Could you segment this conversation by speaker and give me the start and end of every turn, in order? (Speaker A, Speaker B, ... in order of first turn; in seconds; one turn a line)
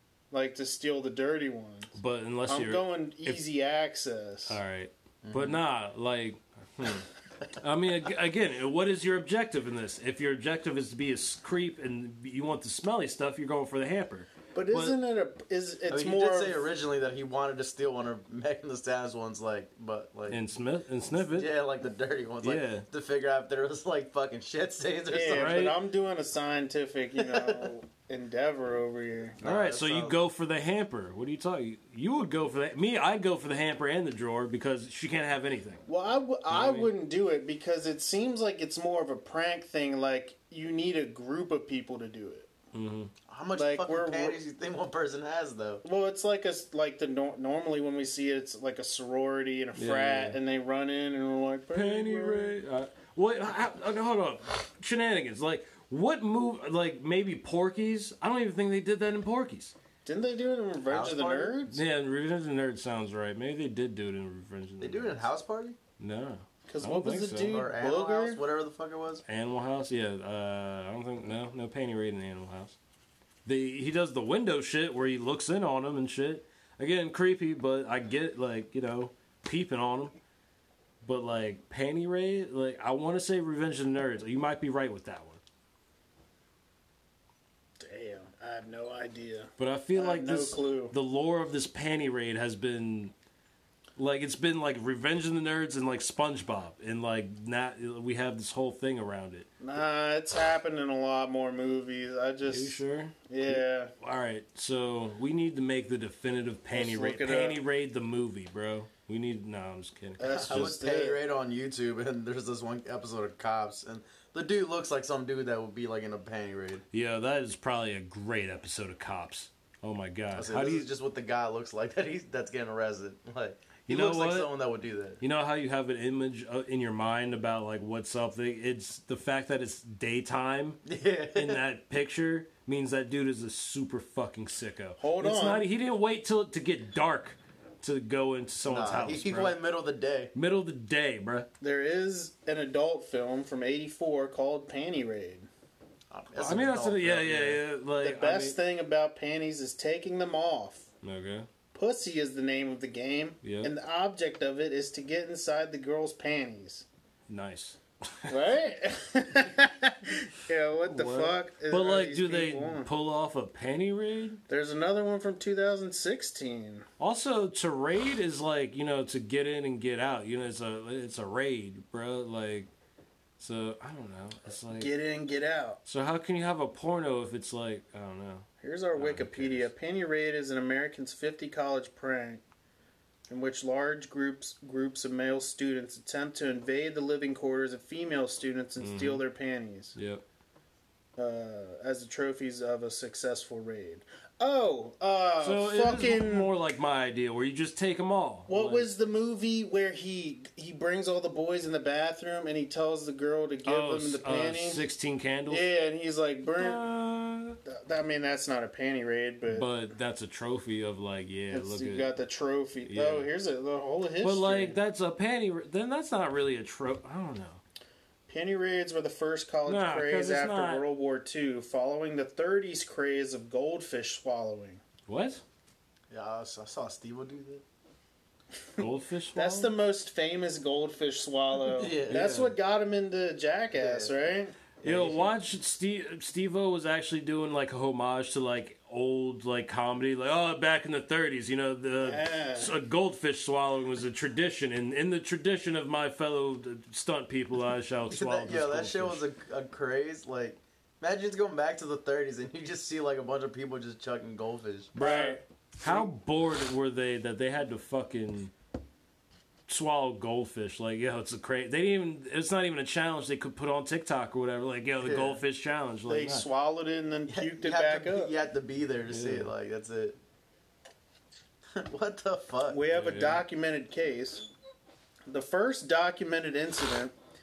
Speaker A: 0.3-1.9
Speaker B: 1.9-3.4
Speaker A: 2.5-4.6
Speaker B: 4.5-15.0
Speaker C: 5.2-5.6
Speaker A: 14.5-16.6
Speaker C: 15.9-20.4
Speaker B: 20.3-21.5
Speaker C: 21.2-25.7
Speaker B: 22.4-22.9
Speaker A: 25.1-29.4
Speaker B: 25.3-25.8
Speaker C: 27.2-27.7
Speaker C: 29.4-30.2
Speaker B: 29.4-35.8
Speaker A: 35.9-42.5
Speaker B: 36.5-36.9
Speaker B: 42.7-43.1
Speaker C: 43.3-45.8
Speaker A: 43.5-44.4
Speaker A: 45.8-52.5
Speaker B: 49.8-50.4
Speaker B: 51.7-59.7
Speaker A: 60.0-61.8
Speaker C: 60.9-61.6
Speaker B: 61.7-65.3
Speaker C: 64.8-65.8
Speaker B: 66.0-67.7
Speaker A: 66.7-68.4
Speaker C: 67.5-69.2
Speaker B: 69.3-72.8
Speaker B: 73.5-80.2
Speaker B: 81.0-85.4
Speaker A: 87.8-90.9
Speaker B: 89.6-93.1
Speaker B: 94.0-99.5
Speaker A: 99.6-103.9
Speaker B: 102.5-110.8
Speaker A: 106.7-107.6
Speaker A: 110.2-111.2
Speaker C: 110.2-116.8
Speaker B: 116.9-120.9
Speaker C: 120.3-125.2
Speaker B: 123.9-124.5
Speaker B: 125.2-130.8
Speaker C: 130.9-131.6
Speaker B: 131.3-139.6
Speaker A: 135.0-135.7
Speaker C: 138.7-140.3
Speaker B: 140.3-141.5
Speaker A: 141.6-145.5
Speaker C: 146.1-147.6
Speaker B: 146.4-148.6
Speaker A: 148.0-150.9
Speaker B: 151.0-151.5
Speaker A: 151.7-156.8
Speaker B: 153.4-153.7
Speaker B: 157.3-158.4
Speaker A: 158.3-162.9
Speaker B: 160.9-164.4
Speaker A: 164.5-166.9
Speaker B: 167.0-172.7
Speaker B: 173.4-174.9
Speaker A: 174.8-175.8
Speaker B: 175.8-179.7
Speaker A: 178.6-182.4
Speaker A: 183.3-190.0
Speaker B: 188.8-189.2
Speaker B: 189.9-190.2
Speaker A: 191.2-196.5
Speaker B: 195.4-198.9
Speaker A: 198.5-204.8
Speaker B: 203.7-205.7
Speaker A: 205.5-206.8
Speaker B: 206.5-207.6
Speaker A: 207.7-209.7
Speaker B: 209.5-212.1
Speaker A: 211.5-214.8
Speaker B: 212.9-213.3
Speaker B: 214.2-217.6
Speaker A: 218.3-224.8
Speaker B: 219.7-220.8
Speaker B: 225.1-225.4
Speaker C: 226.1-227.6
Speaker B: 228.8-229.7
Speaker A: 229.3-234.6
Speaker C: 231.7-232.3
Speaker B: 232.1-232.5
Speaker C: 233.8-234.1
Speaker C: 234.8-235.3
Speaker B: 234.8-249.2
Speaker A: 242.0-242.8
Speaker C: 248.1-254.9
Speaker B: 254.9-258.5
Speaker A: 255.0-256.0
Speaker B: 259.7-266.5
Speaker C: 265.0-265.4
Speaker A: 266.1-268.3
Speaker C: 267.3-270.2
Speaker B: 269.1-269.5
Speaker C: 271.8-272.8
Speaker A: 272.7-274.5
Speaker B: 272.9-273.4
Speaker A: 275.3-277.1